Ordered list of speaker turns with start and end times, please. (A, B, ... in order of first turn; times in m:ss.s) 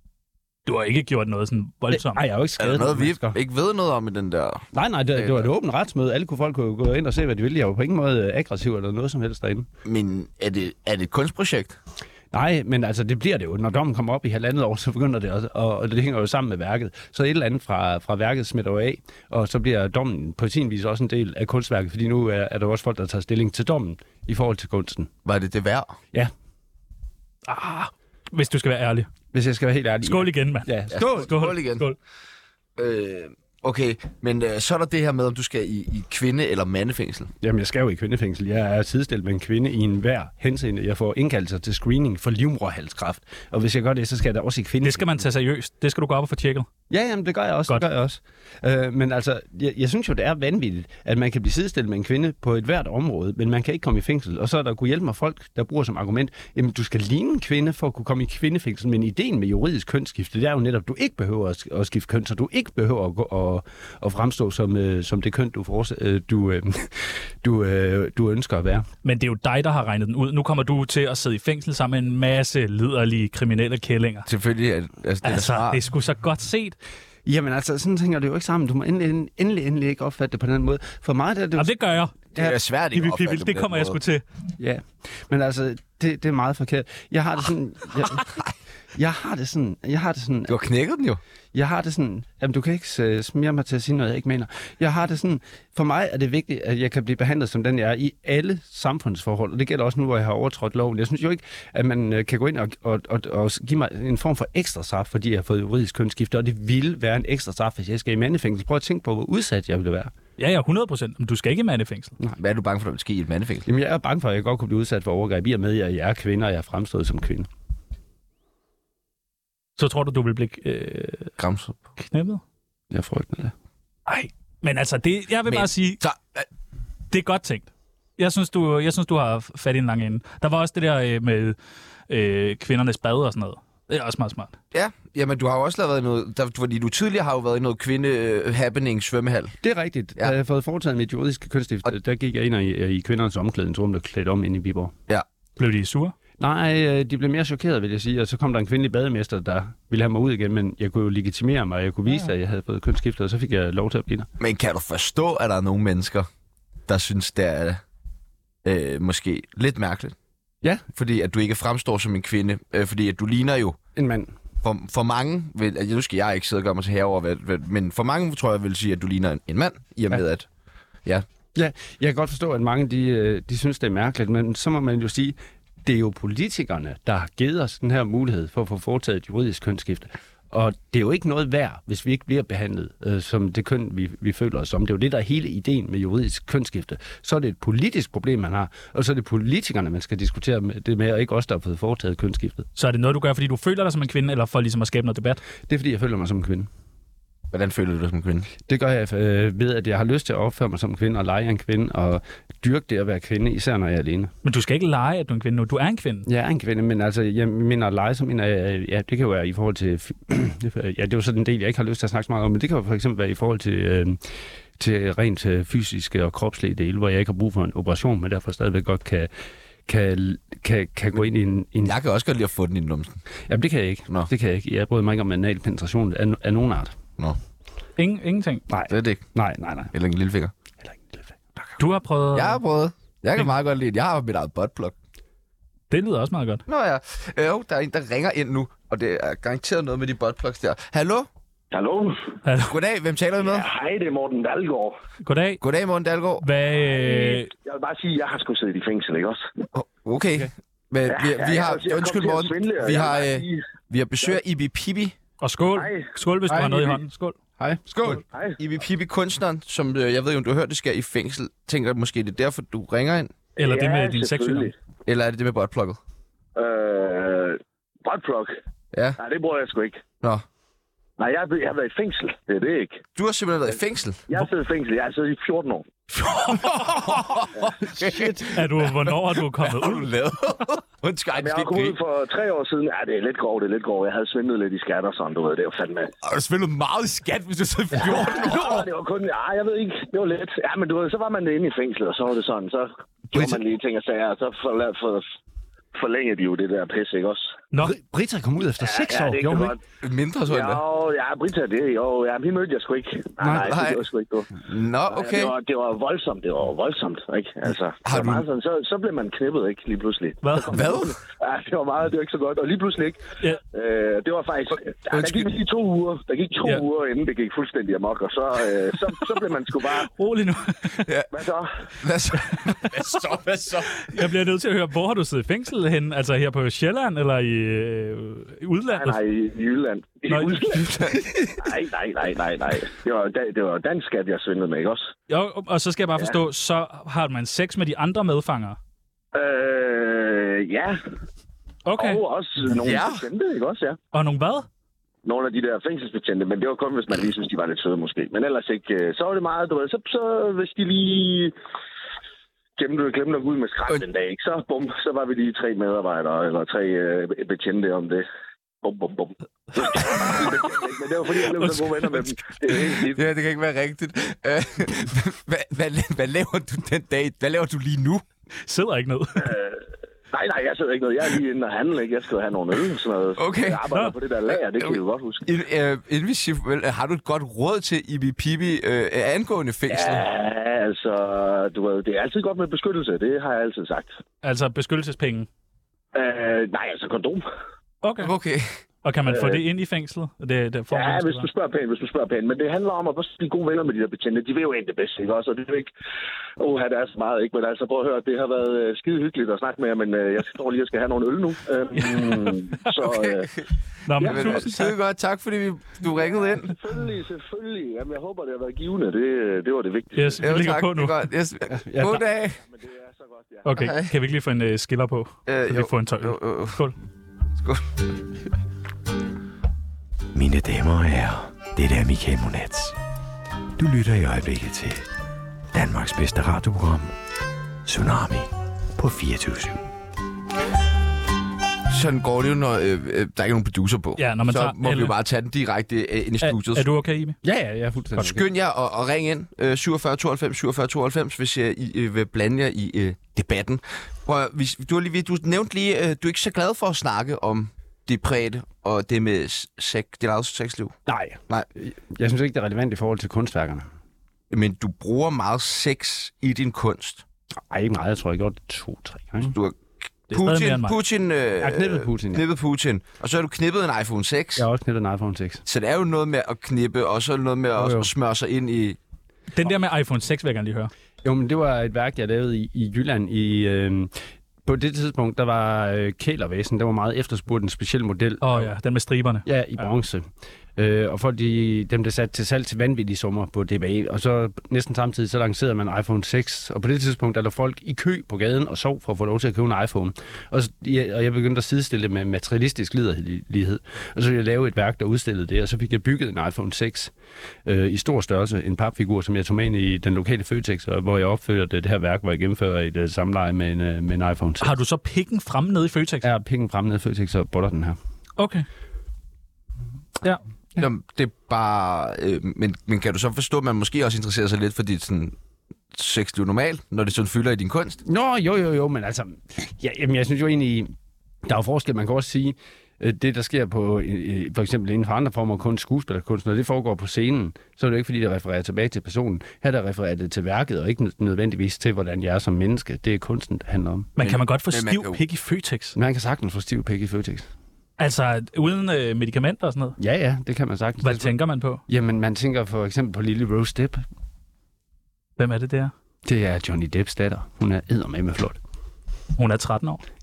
0:00.7-0:02.2 A
0:01.9-0:03.4 B
0:02.6-0:05.5 C
0:04.7-0:09.7 B
0:09.8-0:11.8 C
0:12.3-0:25.1 B
0:25.2-0:26.0 C
0:27.5-0:29.1 A
0:29.3-0:31.3 B
0:30.0-0:32.0 A
0:30.9-0:31.9 C
0:32.8-0:37.3 C
0:37.4-0:45.2 B
0:44.8-0:46.7 A
0:46.9-1:08.9 B
1:09.0-1:14.3 A
1:14.3-1:15.8 C
1:15.2-1:16.8 A
1:17.3-1:21.7 B
1:21.6-1:22.2 A
1:22.4-1:24.0 C
1:22.9-1:24.2 A
1:24.6-1:28.3 B
1:29.0-1:30.6 B
1:30.5-1:31.2 C
1:31.5-1:50.1 B
1:50.4-1:52.1 A
1:52.4-1:53.7 C
1:53.7-1:57.5 B
1:59.8-2:01.3 A
2:01.4-2:01.8 C
2:02.1-2:02.4 A
2:02.9-2:03.5 B
2:04.1-2:06.0 A
2:05.5-2:06.5 C
2:07.1-2:11.6 A
2:12.1-2:14.6 A
2:14.7-2:19.6 C
2:19.6-2:24.9 B
2:25.6-2:26.2 A
2:26.4-2:34.3 B
2:34.4-2:36.3 C
2:36.9-2:37.8 C
2:38.6-2:40.2 C
2:41.0-2:43.8 C
2:44.0-2:44.3 B
2:44.6-2:50.5 C
2:51.6-3:12.6 B
3:12.8-3:15.4 A
3:15.7-3:16.7 B
3:17.5-3:18.5 C
3:18.7-3:24.3 B
3:24.4-3:26.3 A
3:26.3-3:34.2 B
3:34.8-3:39.3 B
3:39.9-3:42.0 B
3:41.8-3:43.2 C
3:43.5-3:46.9 B
3:48.0-3:48.6 A
3:48.7-3:49.9 B
3:48.9-3:49.3 C
3:49.9-3:50.5 C
3:50.8-3:51.8 B
3:51.8-3:52.6 A
3:52.3-3:55.0 C
3:55.9-3:56.6 A
3:56.7-4:01.3 C
4:01.7-4:02.4 D
4:02.4-4:02.8 A
4:02.6-4:03.7 C
4:03.4-4:05.0 D
4:05.2-4:05.6 A
4:05.6-4:06.5 C
4:06.4-4:07.5 A
4:06.9-4:09.5 D
4:09.7-4:15.2 C
4:11.1-4:13.6 D
4:15.4-4:17.4 A
4:15.7-4:16.1 D
4:16.5-4:17.0 B
4:17.6-4:18.2 B
4:17.9-4:23.4 C
4:18.3-4:18.6 D
4:23.6-4:24.7 D
4:23.6-4:24.7 A
4:25.1-4:26.0 C
4:26.6-4:28.5 D
4:28.9-4:29.2 C
4:29.2-4:30.0 D
4:31.2-4:33.0 D
4:33.2-4:34.4 C
4:34.3-4:35.9 D
4:36.2-4:42.0 C
4:38.0-4:38.5 B
4:38.5-4:40.1 A
4:41.4-4:46.1 D
4:46.2-4:48.9 C
4:48.0-4:55.3 D
4:53.3-4:53.6 C
4:55.9-4:57.5 D
4:57.8-4:59.8 B
4:58.8-4:59.8 D
5:00.0-5:00.8 C
5:00.5-5:20.1 D
5:03.4-5:04.0 C
5:04.6-5:05.6 C
5:08.0-5:08.5 C
5:10.4-5:10.7 A
5:10.7-5:11.2 C
5:15.1-5:15.5 C
5:20.1-5:21.1 A
5:21.0-5:21.3 C
5:21.3-5:21.8 D
5:22.0-5:24.2 C
5:22.5-5:23.1 A
5:24.0-5:29.2 A
5:28.9-5:31.0 D
5:30.3-5:30.8 A
5:30.7-5:31.7 C
5:31.6-5:35.1 D
5:35.3-5:38.8 A
5:39.3-5:41.0 D
5:41.9-5:42.2 A
5:42.0-5:44.0 D
5:42.7-5:43.2 C
5:44.1-5:44.7 A
5:45.2-5:51.5 D
5:52.8-5:58.2 D
5:58.8-6:03.2 D
6:00.0-6:00.5 A
6:01.3-6:02.3 A
6:03.0-6:08.2 C
6:08.7-6:09.6 A
6:09.4-6:15.5 D
6:13.4-6:13.8 C
6:13.9-6:14.2 A
6:14.8-6:20.3 C
6:19.9-6:24.2 D
6:24.4-6:25.5 A
6:26.1-6:27.4 D
6:28.0-6:28.3 A
6:28.2-6:28.7 C
6:29.0-6:31.5 A
6:29.3-6:29.6 D
6:30.9-6:35.9 D
6:36.6-6:43.6 D
6:41.9-6:42.9 A
6:43.0-6:43.6 C
6:44.1-6:44.9 A
6:44.2-6:44.6 D
6:44.2-6:46.8 C
6:46.0-6:50.5 D
6:50.2-6:51.2 A
6:50.4-6:52.6 C
6:51.7-6:52.2 B
6:52.4-6:53.6 D
6:53.6-6:57.0 A
6:53.8-6:54.1 C
6:55.5-6:56.9 C
6:57.6-6:57.9 C
7:00.3-7:02.9 E
7:03.8-7:05.1 E
7:05.7-7:07.1 E
7:07.9-7:09.8 E
7:11.9-7:16.9 C
7:14.2-7:15.1 A
7:16.4-7:17.4 A
7:17.4-7:18.5 B
7:18.2-7:31.0 C
7:31.1-7:33.9 B
7:34.5-7:37.2 C
7:37.7-7:39.6 B
7:39.5-7:44.7 C
7:40.3-7:41.0 A
7:41.6-7:42.4 B
7:44.6-7:45.6 B
7:45.6-7:49.0 C
7:47.8-7:48.1 B
7:49.6-7:50.9 A
7:51.2-7:54.1 B
7:54.6-7:58.7 B
7:58.4-7:59.5 A
7:59.4-8:17.1 B
8:17.6-8:24.7 B
8:24.6-8:26.3 A
8:26.2-8:28.0 B
8:28.4-8:28.7 A
8:30.8-8:35.4 C
8:35.9-8:38.0 C
8:38.0-8:40.9 B
8:41.4-8:54.1 B
8:54.2-8:56.0 A
8:54.2-8:55.2 C
8:56.0-8:57.5 B
8:58.0-9:00.0 A
9:00.0-9:01.4 B
9:01.0-9:01.8 A
9:01.9-9:04.0 B
9:05.4-9:05.9 A
9:06.3-9:08.6 B
9:09.4-9:10.0 A